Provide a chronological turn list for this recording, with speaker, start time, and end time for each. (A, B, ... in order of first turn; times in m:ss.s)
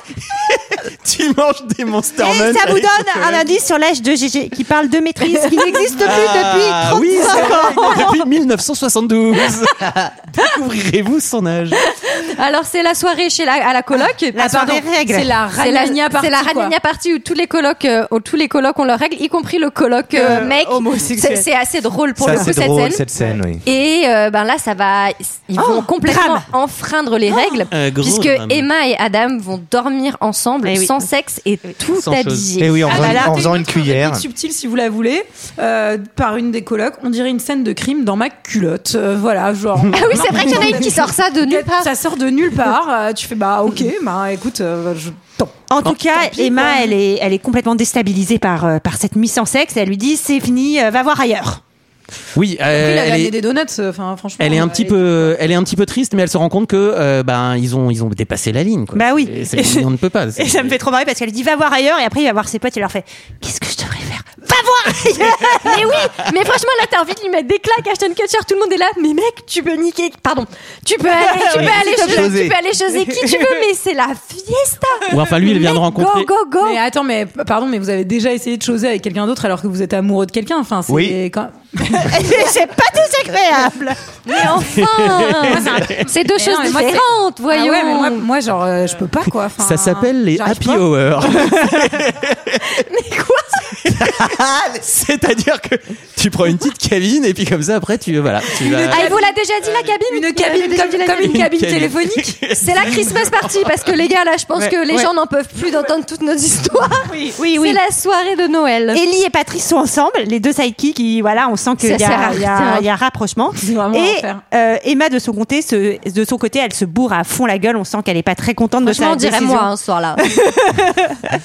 0:00.3-0:03.4 A
0:02.2-0:08.2 B
0:05.3-0:07.9 C
0:06.0-0:11.8 A
0:11.8-0:14.8 C
0:14.4-0:15.4 B
0:14.6-0:16.8 D
0:15.6-0:23.0 C
0:20.1-0:21.5 B
0:22.2-0:23.6 E
0:22.3-0:22.5 B
0:23.6-0:33.2 C
0:25.6-0:26.4 B
0:27.3-0:27.5 B
0:27.7-0:28.7 A
0:30.6-0:31.0 B
0:31.9-0:32.7 A
0:32.6-0:34.2 E
0:32.9-0:33.5 B
0:32.9-0:46.9 D
0:39.9-0:41.9 C
0:45.7-0:51.6 B
0:52.4-0:53.4 A
0:52.7-0:55.3 D
0:54.4-1:00.8 A
0:59.0-0:59.9 B
1:00.4-1:05.8 B
1:05.2-1:16.8 C
1:11.1-1:12.3 B
1:11.5-1:12.6 E
1:13.2-1:13.4 B
1:15.1-1:16.3 A
1:16.6-1:22.3 D
1:20.9-1:21.2 E
1:22.0-1:24.0 B
1:24.3-1:28.3 C
1:24.6-1:26.0 A
1:25.5-1:30.9 D
1:29.6-1:32.7 A
1:32.7-1:33.8 C
1:33.9-1:39.2 A
1:33.9-1:34.8 E
1:38.7-1:41.3 C
1:38.8-1:39.3 D
1:40.1-1:42.4 D
1:40.5-1:44.0 A
1:42.6-1:49.0 C
1:44.6-1:45.1 B
1:47.1-1:47.8 B
1:48.9-1:59.7 B
1:51.8-1:52.9 C
1:53.6-1:54.4 D
1:58.8-2:00.3 C
2:00.4-2:01.1 B